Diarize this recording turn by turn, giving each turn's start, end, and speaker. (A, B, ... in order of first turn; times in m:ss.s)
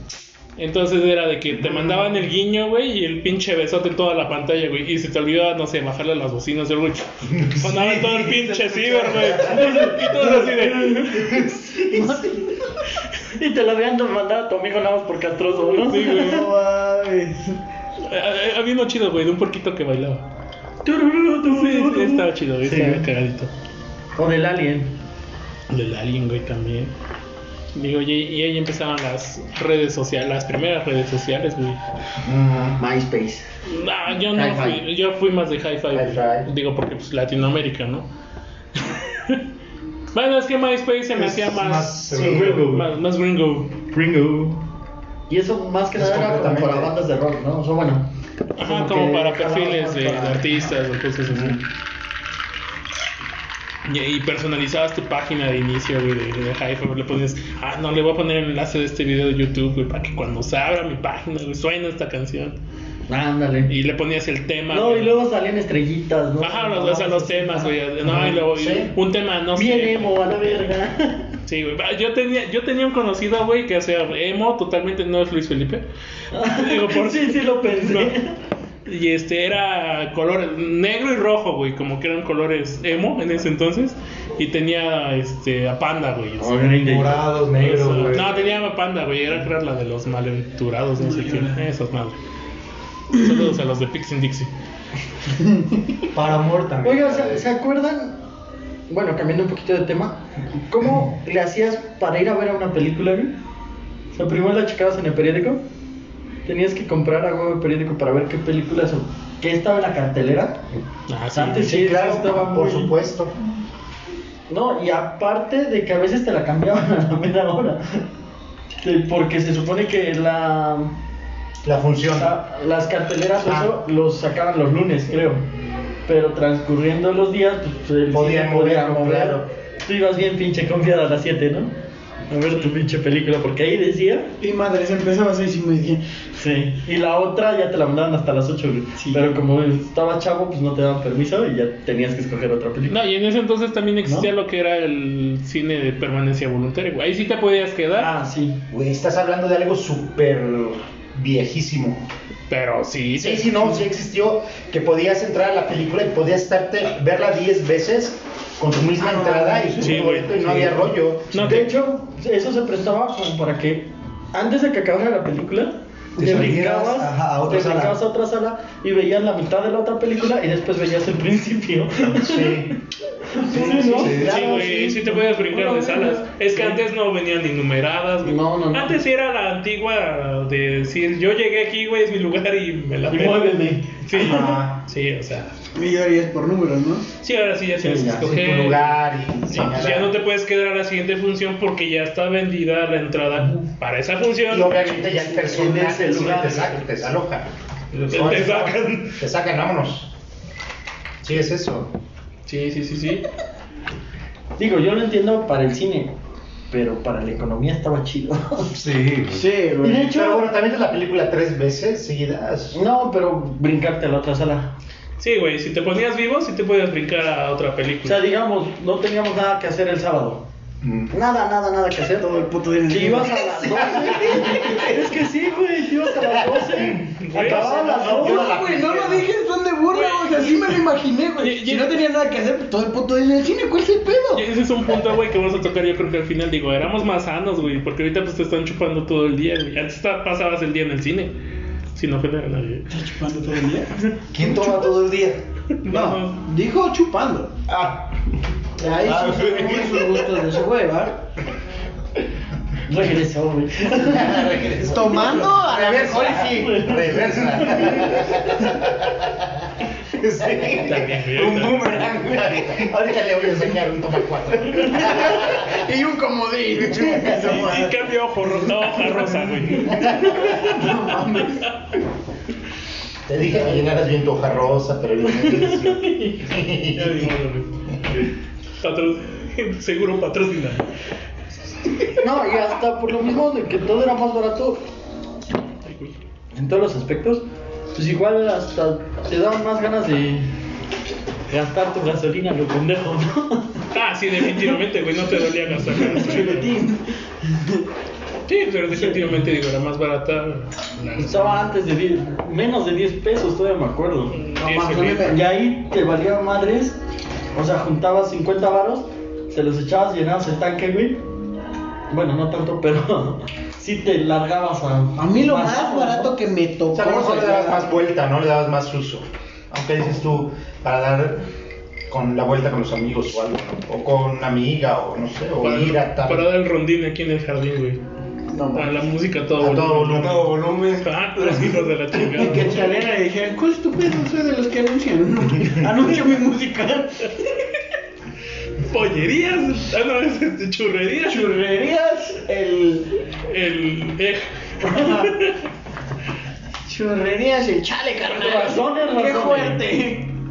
0:00.6-0:11.5 A
0:07.8-0:09.6 B
0:09.5-0:12.7 C
0:10.9-0:11.5 D
0:13.2-0:16.4 C
0:15.9-0:16.5 A
0:16.0-0:17.6 D
0:18.0-0:20.2 A
0:20.8-0:23.0 C
0:21.5-0:23.5 A
0:24.2-0:24.9 C
0:25.7-0:26.9 A
0:27.7-0:31.8 A
0:32.2-0:32.8 E
0:32.8-0:33.5 C
0:33.7-0:38.1 A
0:34.3-0:34.8 C
0:35.9-0:36.5 E
0:38.8-0:39.4 A
0:40.1-0:43.7 A
0:41.2-0:42.6 E
0:42.2-0:42.9 C
0:43.9-0:44.6 C
0:45.3-0:48.1 C
0:46.0-0:46.9 E
0:48.6-0:51.6 A
0:48.6-0:50.5 C
0:51.3-0:51.6 E
0:53.9-1:02.6 A
1:03.1-1:03.7 C
1:03.7-1:05.1 A
1:04.7-1:07.7 C
1:06.4-1:10.1 A
1:08.0-1:08.9 E
1:09.6-1:11.3 C
1:11.5-1:15.8 A
1:16.3-1:18.4 C
1:16.4-1:18.1 A
1:18.9-1:26.8 A
1:26.4-1:27.3 C
1:26.8-1:28.4 B
1:27.5-1:32.2 A
1:31.0-1:31.6 D
1:33.1-1:34.5 A
1:35.4-1:35.7 D
1:36.1-1:37.4 B
1:36.8-1:38.2 C
1:38.9-1:43.4 C
1:44.1-1:45.6 C
1:46.5-1:50.7 C
1:51.1-1:51.7 A
1:51.3-1:52.9 C
1:51.6-1:53.3 E
1:54.5-1:58.0 C
1:58.8-2:01.0 C
2:01.6-2:02.3 E
2:02.1-2:05.4 C
2:03.4-2:03.7 E
2:06.1-2:11.7 C
2:08.1-2:09.5 E
2:12.3-2:14.3 C
2:14.4-2:16.0 D
2:16.4-2:23.0 C
2:22.9-2:28.1 A
2:28.0-2:28.6 C
2:28.7-2:32.0 E
2:32.5-2:33.8 A
2:33.2-2:41.6 E
2:39.0-2:40.2 D
2:39.8-2:40.4 A
2:41.3-2:41.7 A
2:41.3-2:52.6 C
2:46.2-2:48.0 B
2:52.1-2:52.7 E
2:53.3-2:56.8 C
2:53.4-2:55.2 D
2:53.6-2:54.6 B
2:54.1-3:03.5 A
2:58.2-2:59.0 C
3:03.1-3:04.0 C
3:04.0-3:05.5 A
3:04.2-3:04.8 E
3:05.8-3:07.1 D
3:07.2-3:08.9 A
3:07.8-3:08.3 C
3:08.2-3:10.1 E
3:09.5-3:15.0 A
3:14.5-3:20.1 E
3:15.1-3:16.8 C
3:18.0-3:19.2 A
3:21.2-3:21.9 E
3:22.5-3:23.3 A
3:24.6-3:26.2 C
3:26.7-3:28.7 C
3:28.7-3:29.4 B
3:29.3-3:30.1 D
3:29.8-3:30.5 C
3:30.1-3:32.8 E
3:32.7-3:34.7 C
3:35.2-3:38.2 A
3:38.0-3:40.4 C
3:40.8-3:41.1 E
3:41.1-3:48.6 C
3:42.2-3:45.0 D
3:46.6-3:49.3 E
3:47.2-3:47.8 A
3:47.6-3:54.4 D
3:49.9-3:50.8 A
3:51.4-3:52.0 A
3:54.3-4:01.4 A
4:02.0-4:02.9 A
4:02.9-4:04.6 D
4:04.3-4:05.4 B
4:05.8-4:06.4 A
4:05.9-4:07.6 D
4:07.7-4:08.0 B
4:08.8-4:11.2 D
4:09.0-4:10.1 B
4:12.8-4:14.5 C
4:13.9-4:25.8 E
4:14.8-4:16.6 D
4:16.0-4:18.0 C
4:20.8-4:21.9 A
4:21.4-4:22.9 B
4:25.0-4:31.7 D
4:26.9-4:27.6 E
4:27.3-4:31.0 A
4:29.9-4:30.5 E
4:33.3-4:37.3 E
4:36.9-4:38.3 A
4:38.8-4:40.9 A
4:42.2-4:44.8 C
4:45.8-4:46.2 A
4:46.5-4:50.5 C
4:51.5-4:53.8 C
4:53.9-4:56.8 A
4:55.9-4:57.8 D
4:58.5-5:01.6 A
4:58.9-4:59.3 C
5:01.2-5:04.4 C
5:04.3-5:05.4 A
5:04.6-5:05.4 D
5:05.2-5:07.0 C
5:07.5-5:11.2 C
5:12.1-5:16.3 C
5:15.2-5:17.9 D
5:16.9-5:21.4 E
5:22.1-5:26.5 E
5:25.6-5:28.0 A
5:28.5-5:29.0 D
5:28.7-5:32.9 A
5:29.6-5:30.8 E
5:30.6-5:31.0 B
5:32.2-5:37.5 D
5:38.8-5:41.6 A
5:41.2-5:43.1 D
5:43.5-5:45.6 A
5:44.8-5:45.4 D
5:46.9-5:50.3 D
5:48.3-5:50.0 C